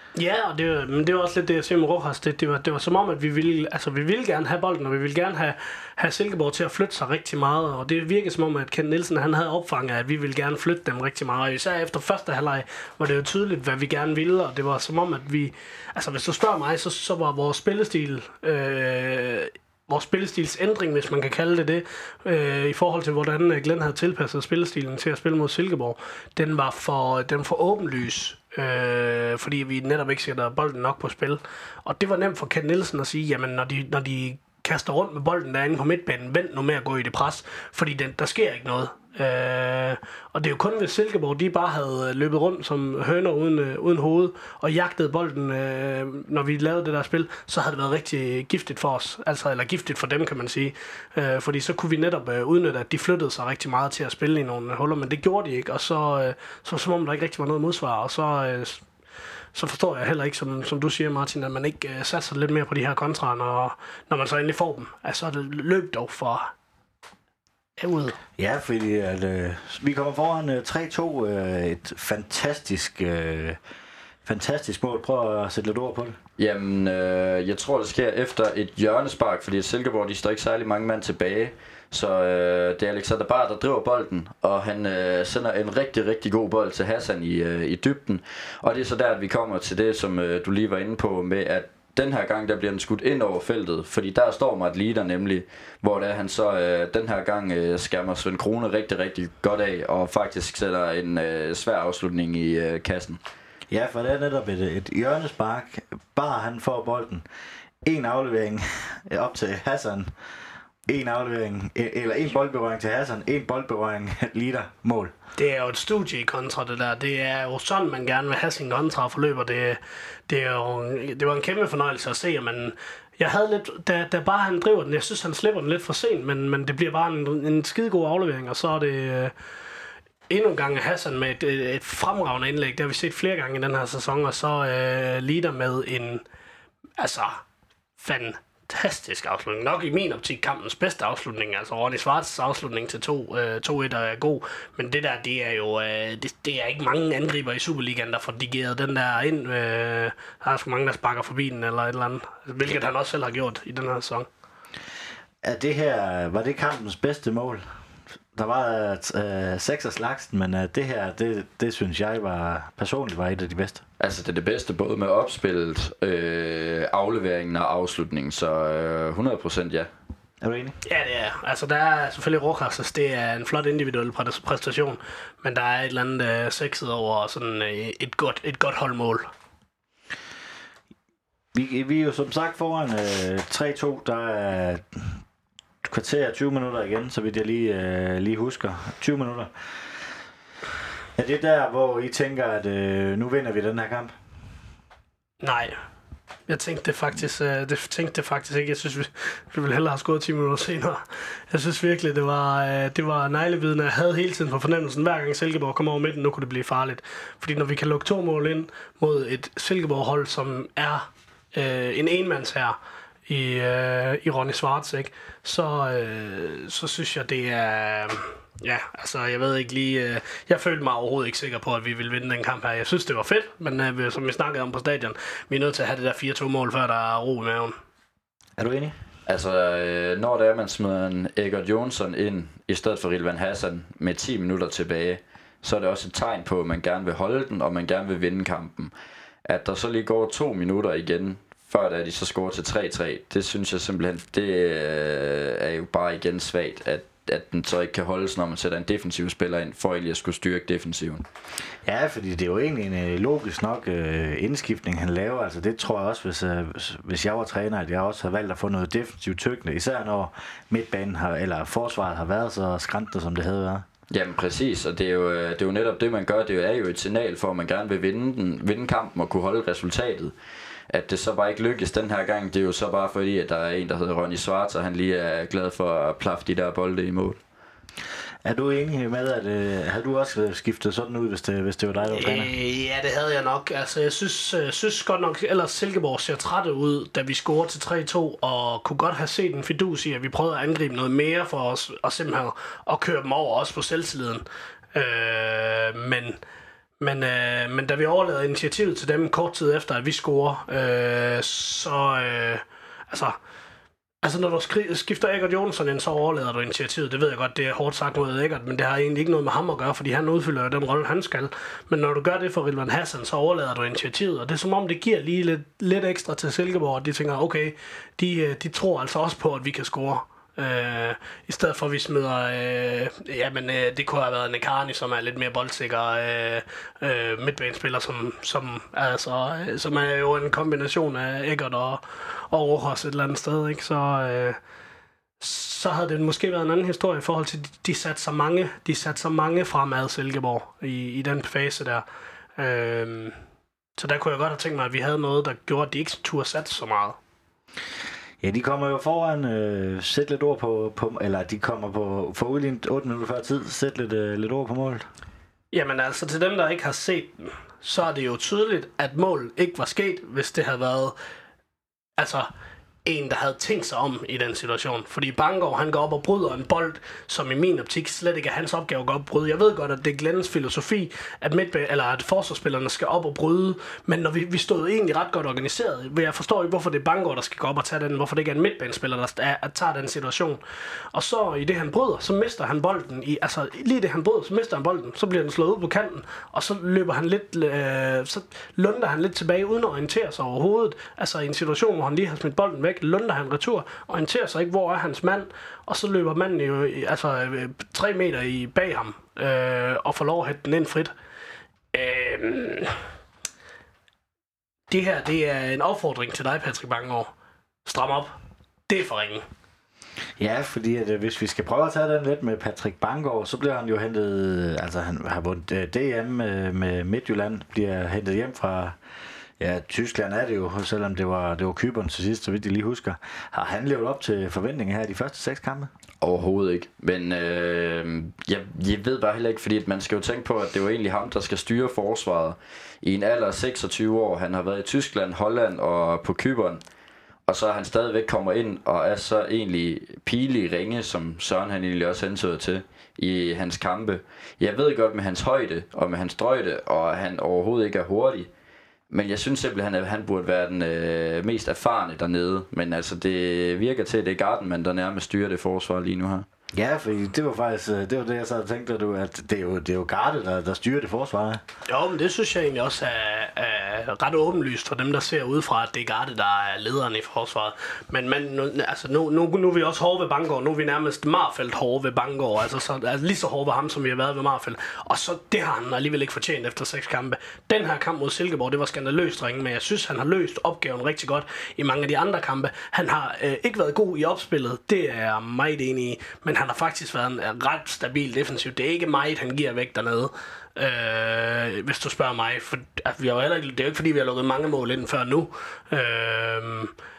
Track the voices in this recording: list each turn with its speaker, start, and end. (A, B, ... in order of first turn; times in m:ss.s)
0:00.2-0:58.8 A
0:59.5-1:06.5 A
1:07.8-1:08.2 A
1:08.4-1:13.6 B
1:14.2-1:16.2 B
1:16.4-1:43.2 C
1:43.7-1:47.2 B
1:47.8-1:50.1 B
1:50.9-1:55.1 B
1:55.4-2:09.3 A
2:10.3-2:16.2 A
2:17.0-2:17.4 A
2:18.0-2:34.3 A
2:35.4-2:37.7 B
2:38.3-2:43.8 B
2:44.0-2:49.9 C
2:50.4-2:50.8 B
2:50.8-2:59.3 A
3:01.5-3:05.2 B
3:05.8-3:09.7 B
3:11.2-3:14.1 B
3:15.4-3:15.8 A
3:16.5-3:47.8 A
3:48.6-3:49.0 B
3:49.3-3:58.9 C
3:59.5-4:11.2 C
4:11.8-4:23.9 B
4:24.1-4:30.3 C
4:30.9-4:37.4 C
4:38.4-4:42.5 B
4:42.2-4:56.4 A
4:57.0-5:03.4 A
5:04.2-5:34.6 A
5:35.4-5:42.0 A
5:42.6-5:43.4 A
5:44.0-5:47.2 A
5:48.4-5:55.1 B
5:55.7-6:01.2 A
6:02.2-6:02.5 A
6:03.0-6:20.6 A
6:21.1-6:41.1 A
6:41.9-6:43.0 A
6:44.9-6:47.3 A
6:47.8-6:48.4 A
6:48.9-6:49.4 A
6:50.4-6:59.0 B
6:59.6-7:05.9 B
7:06.2-7:16.8 C
7:17.5-7:28.5 C
7:29.1-7:36.5 C
7:36.7-7:41.6 B
7:41.9-8:16.9 A